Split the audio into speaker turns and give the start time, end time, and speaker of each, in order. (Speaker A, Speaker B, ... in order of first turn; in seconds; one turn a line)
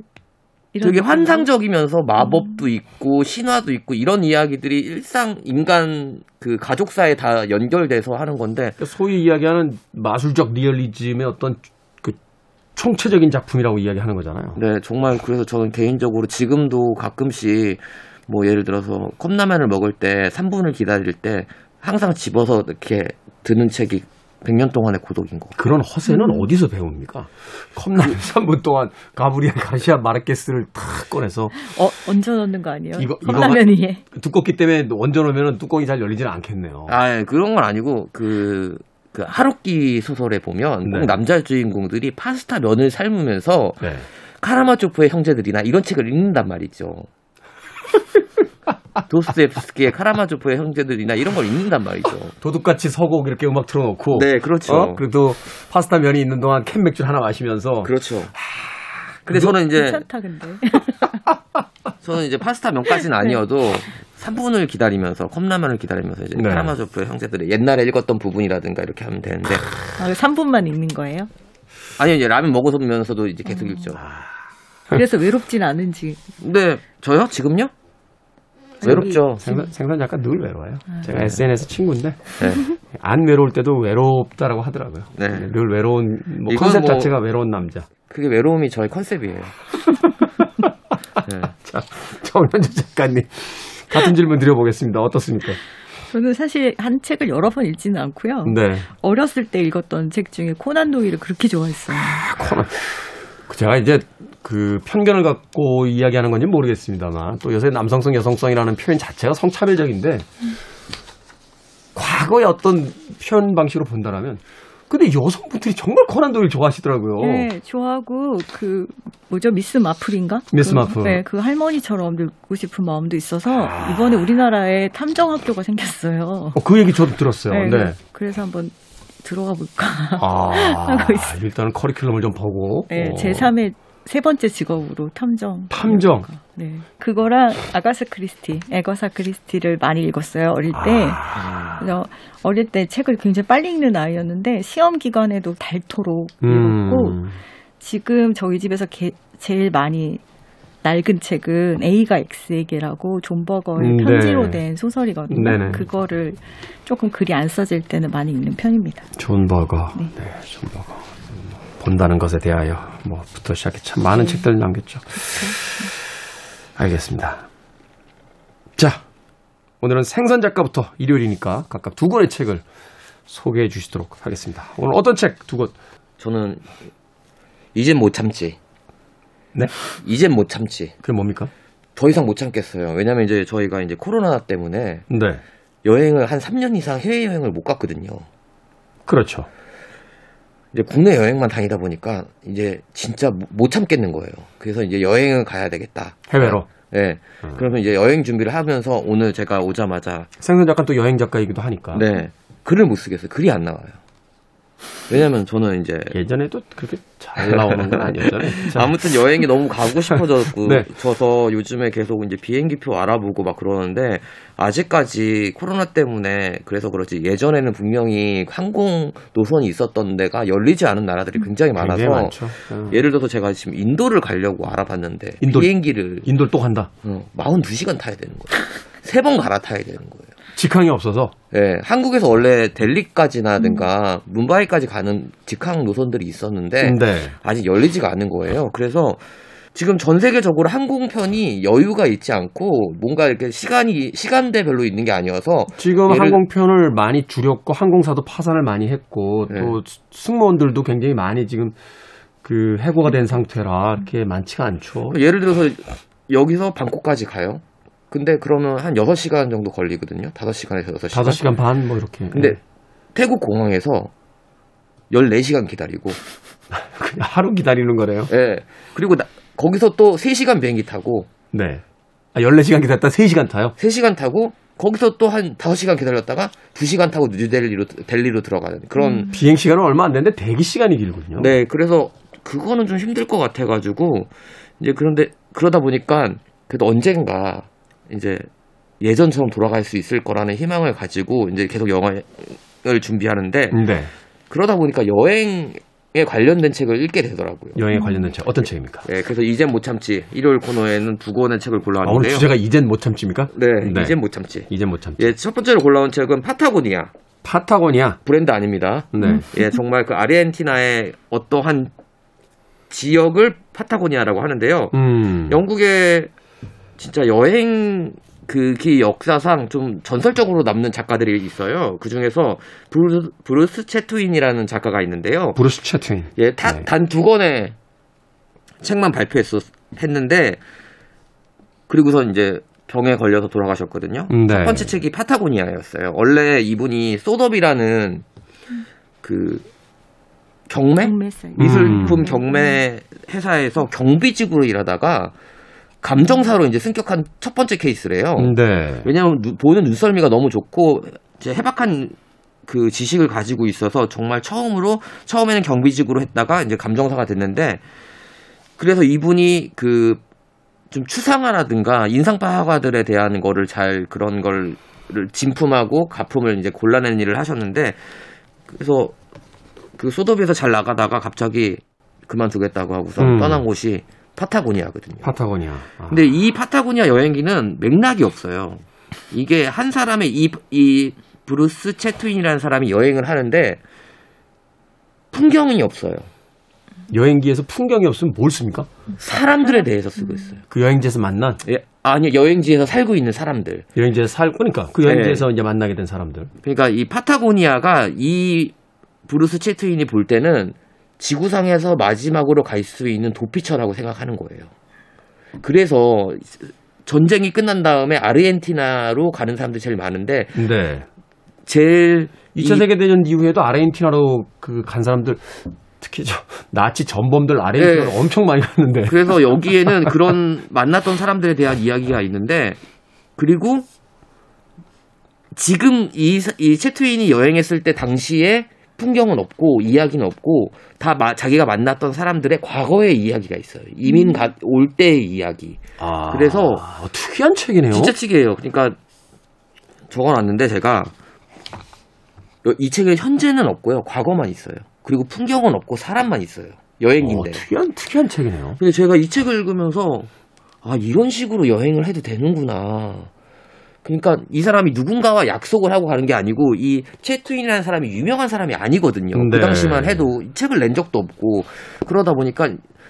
Speaker A: 0.7-1.5
Speaker B: 0.8-8.8
Speaker C: 8.8-12.2
Speaker C: 12.8-14.6
Speaker B: 14.6-25.6
Speaker C: 25.6-31.6
Speaker A: 26.1-26.4
Speaker A: 31.6-34.0
Speaker C: 33.0-36.9
Speaker B: 36.9-43.8
Speaker C: 40.8-41.2
Speaker C: 43.8-44.1
Speaker B: 44.4-47.1
Speaker B: 49.1-52.3
Speaker C: 52.4-59.6
Speaker B: 54.1-55.0
Speaker B: 57.8-58.3
Speaker B: 59.2-60.0
Speaker A: 59.7-61.1
Speaker B: 62.0-69.7
Speaker C: 66.3-66.7
Speaker A: 70.0-71.3
Speaker B: 72.0-74.0
Speaker A: 74.9-76.2
Speaker B: 76.4-77.7
Speaker C: 78.8-87.9
Speaker B: 78.8-79.5
Speaker A: 78.8-79.6
Speaker B: 81.1-81.4
Speaker B: 82.4-82.7
Speaker B: 85.2-85.5
Speaker B: 86.5-87.1
Speaker B: 88.1-89.6
Speaker C: 89.8-90.7
Speaker B: 91.2-91.5
Speaker C: 91.4-95.6
Speaker A: 96.1-102.2
Speaker C: 98.4-98.9
Speaker C: 101.9-110.3
Speaker C: 111.9-117.5
Speaker A: 117.2-126.6
Speaker C: 120.5-121.2
Speaker C: 123.6-124.1
Speaker C: 126.5-128.0
Speaker A: 127.5-131.3
Speaker C: 130.2-133.5
Speaker A: 132.9-147.2
Speaker C: 135.7-136.3
Speaker C: 140.7-141.6
Speaker C: 146.4-147.4
Speaker A: 147.8-150.2
Speaker A: 150.8-159.1
Speaker C: 153.8-154.6
Speaker C: 155.3-155.8
Speaker C: 159.2-165.8
Speaker A: 164.1-164.4
Speaker A: 165.1-165.9
Speaker C: 166.8-167.4
Speaker C: 168.8-169.0
Speaker C: 169.8-172.6
Speaker C: 173.3-175.7
Speaker B: 176.2-176.7
Speaker B: 177.8-178.6
Speaker B: 179.9-180.9
Speaker C: 181.0-181.5
Speaker B: 182.0-185.0
Speaker C: 185.1-185.4
Speaker B: 185.8-188.2
Speaker C: 189.1-189.5
Speaker B: 190.7-200.3
Speaker C: 196.3-196.7
Speaker C: 200.4-202.0
Speaker B: 201.9-204.0
Speaker B: 205.1-206.2
Speaker C: 206.1-209.1
Speaker B: 207.4-226.3
Speaker C: 210.1-210.9
Speaker C: 221.8-223.0
Speaker C: 225.4-225.7
Speaker C: 226.2-226.9
Speaker B: 227.0-230.3
Speaker C: 230.6-231.3
Speaker B: 231.5-239.2
Speaker C: 236.8-237.3
Speaker B: 239.8-246.4
Speaker C: 245.8-251.8
Speaker B: 249.5-249.8
Speaker C: 252.4-255.2
Speaker B: 255.1-261.4
Speaker C: 261.1-262.6
Speaker B: 262.3-262.6
Speaker B: 263.1-264.1
Speaker B: 265.1-266.2
Speaker C: 266.7-268.3
Speaker B: 268.3-271.3
Speaker C: 271.5-271.8
Speaker C: 272.3-273.8
Speaker B: 273.8-279.3
Speaker C: 279.3-281.5
Speaker B: 281.4-288.5
Speaker B: 289.0-293.8
Speaker C: 293.7-294.1
Speaker B: 294.5-297.8
Speaker C: 297.8-299.0
Speaker A: 297.9-298.2
Speaker B: 299.0-302.5
Speaker C: 302.0-304.1
Speaker B: 303.5-307.1
Speaker C: 304.7-305.2
Speaker C: 307.4-308.2
Speaker B: 308.2-311.9
Speaker C: 309.1-309.5
Speaker A: 309.2-309.4
Speaker B: 312.9-316.3
Speaker C: 314.9-315.6
Speaker B: 317.0-325.6
Speaker C: 325.6-326.9
Speaker B: 326.4-327.8
Speaker B: 328.8-330.6
Speaker B: 331.9-338.2
Speaker C: 334.3-335.0
Speaker B: 339.2-339.7
Speaker B: 340.7-345.3
Speaker A: 341.0-342.8
Speaker C: 341.6-342.3
Speaker B: 346.0-352.1
Speaker C: 348.4-349.1
Speaker B: 352.7-357.8
Speaker B: 358.8-360.2
Speaker B: 360.9-368.1
Speaker B: 368.7-369.1
Speaker B: 370.0-375.3
Speaker C: 373.2-373.6
Speaker C: 375.2-376.2
Speaker B: 376.1-383.8
Speaker B: 385.3-386.3
Speaker C: 387.1-388.9
Speaker B: 389.2-390.6
Speaker A: 390.2-390.5
Speaker C: 390.7-391.6
Speaker B: 391.6-393.9
Speaker C: 393.9-396.5
Speaker B: 395.0-395.4
Speaker B: 396.6-398.7
Speaker B: 399.3-404.7
Speaker B: 405.6-410.6
Speaker C: 410.5-411.1
Speaker B: 411.7-412.8
Speaker C: 412.5-420.2
Speaker B: 417.8-418.2
Speaker B: 419.0-422.8
Speaker B: 423.4-423.9
Speaker B: 425.5-436.9
Speaker A: 434.1-434.5
Speaker C: 436.0-438.1
Speaker B: 437.9-439.0
Speaker B: 440.1-441.1
Speaker B: 442.6-447.6
Speaker C: 447.2-448.8
Speaker B: 448.8-450.3
Speaker B: 450.8-453.3
Speaker B: 454.0-462.8
Speaker C: 459.3-460.3